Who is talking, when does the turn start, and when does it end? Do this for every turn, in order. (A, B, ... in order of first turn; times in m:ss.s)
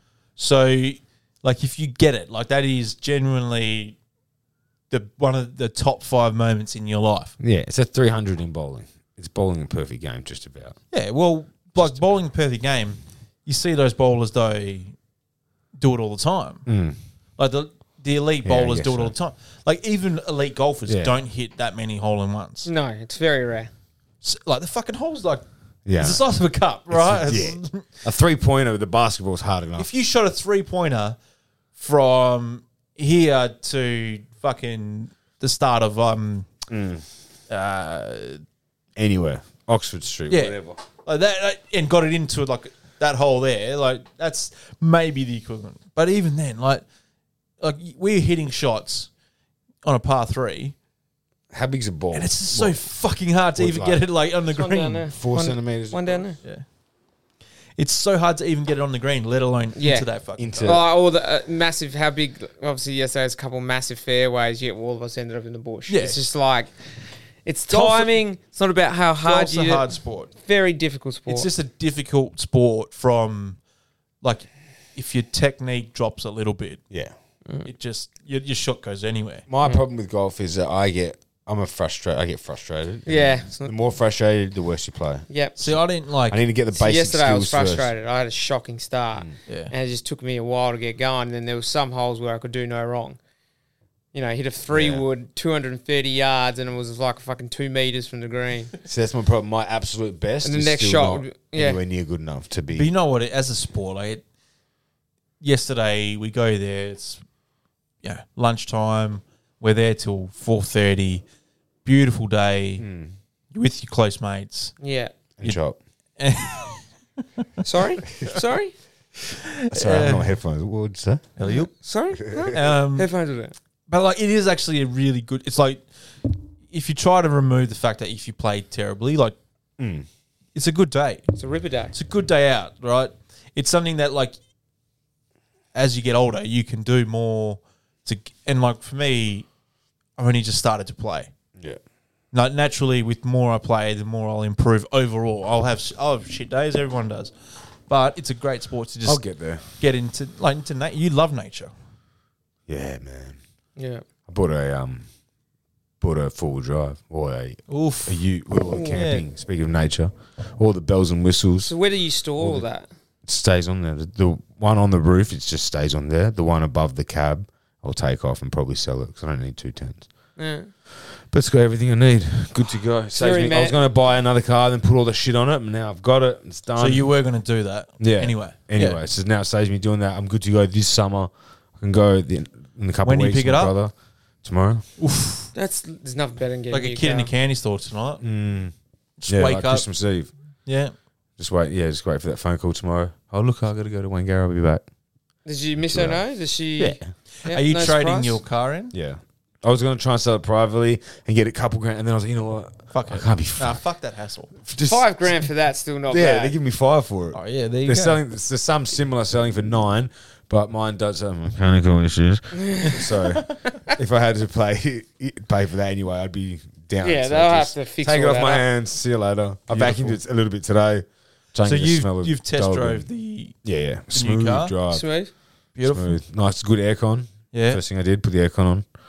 0:00.4-0:04.0 A
0:04.9-0:07.3 A
0:07.4-0:10.8 B
0:10.9-0:14.9 A
0:15.8-0:16.6 A
0:16.6-0:17.0 B
0:17.4-0:22.7 A
0:18.4-0:19.1 B
0:20.9-0:21.1 B
0:22.6-0:23.7 C
0:24.2-0:25.4 A
0:25.8-0:26.2 B
0:26.0-0:27.8 A
0:26.9-0:29.9 B
0:29.8-0:31.2 A
0:31.8-0:36.5 A
0:36.7-0:37.0 B
0:37.5-0:38.4 A
0:39.0-0:40.8 B
0:40.3-0:46.8 A
0:47.6-0:49.1 A
0:49.8-0:50.7 A
0:51.5-0:52.8 B
0:52.1-0:55.1 A
0:53.6-0:54.0 B
0:54.5-0:56.4 C
0:55.1-0:56.2 B
0:57.8-1:00.8 A
0:59.8-1:00.1 C
1:00.4-1:00.8 B
1:00.6-1:06.7 C
1:05.9-1:06.2 A
1:07.4-1:11.5 C
1:07.7-1:08.1 A
1:09.2-1:10.3 A
1:11.3-1:13.6 A
1:14.2-1:16.8 A
1:17.6-1:19.4 A
1:19.5-1:25.8 B
1:23.0-1:23.7 C
1:25.3-1:25.6 C
1:25.6-1:26.4 A
1:26.3-1:27.9 B
1:26.7-1:33.2 C
1:29.5-1:29.7 A
1:34.1-1:38.7 C
1:34.7-1:35.0 B
1:38.8-1:42.9 B
1:40.4-1:41.8 C
1:42.7-1:44.2 A
1:45.4-1:47.2 A
1:48.0-1:51.2 A
1:51.8-1:52.8 A
1:52.8-1:53.1 B
1:53.5-1:54.7 A
1:54.8-1:55.1 C
1:55.4-1:55.8 B
1:56.2-1:56.8 A
1:57.6-1:58.7 C
1:59.2-2:00.3 A
1:59.7-2:01.3 B
2:01.4-2:01.7 A
2:01.8-2:03.5 C
2:02.2-2:02.5 B
2:02.3-2:03.1 A
2:03.9-2:09.4 A
2:09.8-2:10.1 B
2:10.5-2:11.3 A
2:11.4-2:11.9 C
2:11.9-2:14.4 A
2:15.7-2:19.5 A
2:20.2-2:21.3 A
2:22.3-2:27.3 A
2:27.9-2:29.2 A
2:29.0-2:29.6 B
2:29.8-2:31.7 A
2:32.7-2:33.4 B
2:33.8-2:34.0 C
2:34.3-2:35.0 B
2:36.0-2:41.7 B
2:37.7-2:38.2 A
2:38.7-2:39.0 C
2:38.9-2:39.2 A
2:41.6-2:42.9 C
2:42.4-2:42.6 B
2:43.2-2:50.0 B
2:50.4-2:50.7 C
2:51.3-2:57.1 B
2:53.1-2:53.8 C
2:56.8-2:59.0 A
2:58.0-3:03.9 B
3:03.0-3:03.7 A
3:04.4-3:04.8 B
3:05.0-3:05.5 A
3:05.5-3:07.3 C
3:06.7-3:08.2 A
3:08.2-3:08.7 B
3:09.2-3:09.8 A
3:09.3-3:10.3 B
3:10.6-3:10.9 A
3:11.4-3:14.8 B
3:15.4-3:18.4 C
3:15.8-3:16.2 B
3:16.8-3:18.9 A
3:18.9-3:23.8 B
3:22.9-3:24.5 A
3:24.6-3:25.3 B
3:24.8-3:26.5 C
3:26.1-3:43.1 B
3:27.3-3:28.2 A
3:32.5-3:33.1 C
3:37.0-3:38.6 C
3:39.7-3:40.2 A
3:41.6-3:43.6 A
3:43.6-3:45.0 B
3:44.1-3:44.7 A
3:44.9-3:45.3 C
3:45.8-3:46.2 A
3:45.8-3:48.8 B
3:47.5-3:47.8 A